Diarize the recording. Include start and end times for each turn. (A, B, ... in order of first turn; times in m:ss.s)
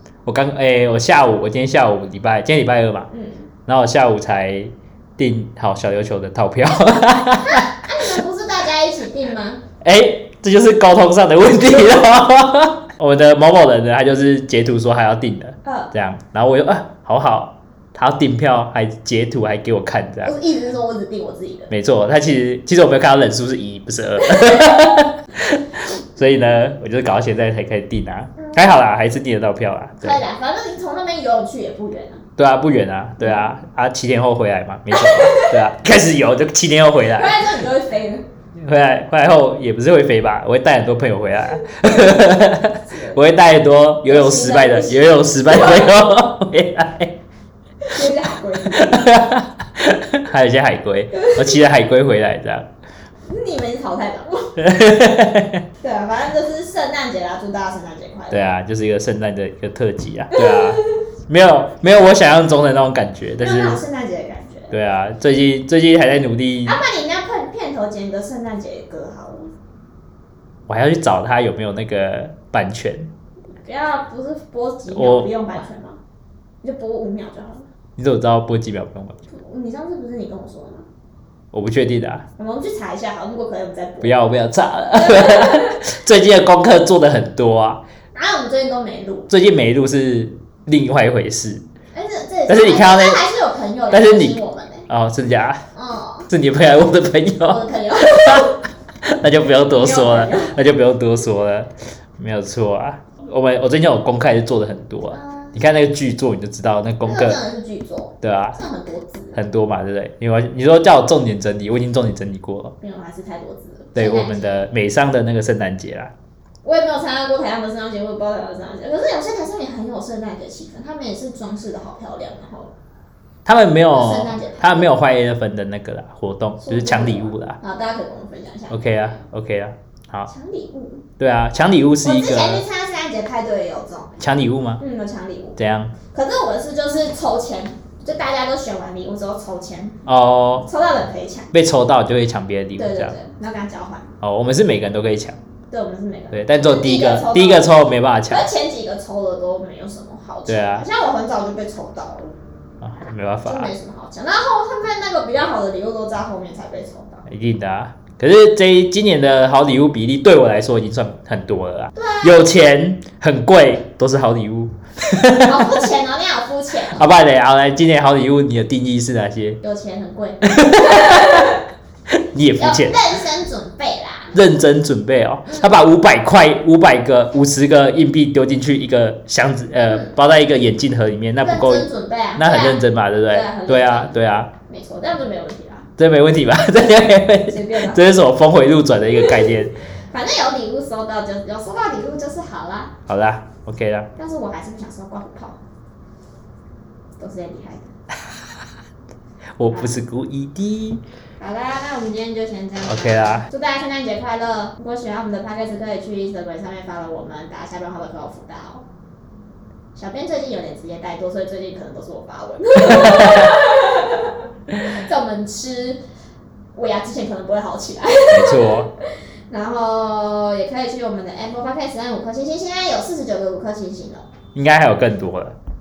0:00.2-0:03.1 A
0:03.1-0:03.5 B
0:03.7-0:07.7 A
0:07.4-0:09.6 B
0:09.8-0:20.3 A
0:15.6-0:15.9 B
0:20.2-0:21.7 B
0:21.7-0:30.2 A
0:24.2-0:24.9 B
0:28.4-0:28.6 B
0:30.0-0:32.2 B
0:32.4-0:37.5 A
0:33.2-0:33.5 B
0:34.9-0:35.7 B
0:37.0-0:38.2 B
0:38.6-0:47.2 A
0:42.8-0:43.2 B
0:44.0-0:45.9 B
0:47.8-0:49.2 B
0:48.7-0:52.7 A
0:51.1-0:51.6 B
0:53.3-0:54.6 B
0:54.6-0:55.6 A
0:55.8-0:58.5 B
0:58.3-1:03.8 A
1:00.3-1:01.0 B
1:03.4-1:04.7 B
1:04.7-1:06.8 A
1:06.6-1:09.5 B
1:10.7-1:13.1 A
1:13.5-1:16.0 B
1:14.9-1:15.3 A
1:16.6-1:17.7 B
1:18.0-1:19.2 A
1:19.3-1:20.9 B
1:21.5-1:22.2 A
1:22.4-1:24.2 B
1:24.0-1:27.8 A
1:24.9-1:25.8 B
1:28.1-1:29.3 B
1:29.3-1:31.6 A
1:31.9-1:34.9 B
1:32.5-1:33.2 A
1:33.9-1:35.6 A
1:35.7-1:36.3 B
1:36.3-1:38.5 A
1:37.4-1:38.6 B
1:39.0-1:47.4 A
1:39.7-1:40.6 B
1:45.1-1:45.6 B
1:47.0-1:49.4 B
1:48.2-1:48.6 A
1:49.4-1:52.7 A
1:52.8-1:54.7 B
1:54.0-1:56.1 A
1:56.6-2:02.7 B
2:03.4-2:07.6 A
2:03.9-2:04.9 B
2:06.6-2:09.2 B
2:08.7-2:10.3 A
2:10.3-2:11.0 B
2:11.2-2:12.6 A
2:12.0-2:14.2 B
2:14.2-2:14.8 A
2:14.8-2:15.6 B
2:15.6-2:15.9 A
2:16.1-2:20.0 B
2:20.0-2:20.6 A
2:20.6-2:21.5 B
2:21.5-2:23.1 A
2:22.8-2:24.1 B
2:24.2-2:25.4 A
2:25.7-2:27.8 B
2:26.3-2:28.4 A
2:28.3-2:32.3 B
2:30.5-2:30.9 A
2:32.8-2:33.7 A
2:33.4-2:37.2 B
2:37.3-2:45.8 A
2:41.9-2:42.5 B
2:45.4-2:47.0 B
2:46.9-2:49.6 A
2:49.6-2:51.6 B
2:50.4-2:51.6 A
2:52.1-2:53.0 A
2:52.6-2:54.4 B
2:54.3-3:04.5 A
2:55.5-2:55.8 B
3:01.4-3:04.1 B
3:04.6-3:05.9 B
3:06.0-3:09.7 A
3:07.5-3:08.0 B
3:10.1-3:12.9 B
3:13.1-3:14.1 A
3:14.2-3:15.6 B
3:17.2-3:17.9 B
3:19.6-3:21.0 A
3:19.7-3:20.0 B
3:21.4-3:28.8 B
3:22.8-3:23.5 A
3:29.9-3:36.0 B
3:32.8-3:33.5 A
3:36.7-3:44.2 B
3:38.3-3:38.9 A
3:44.5-3:45.6 A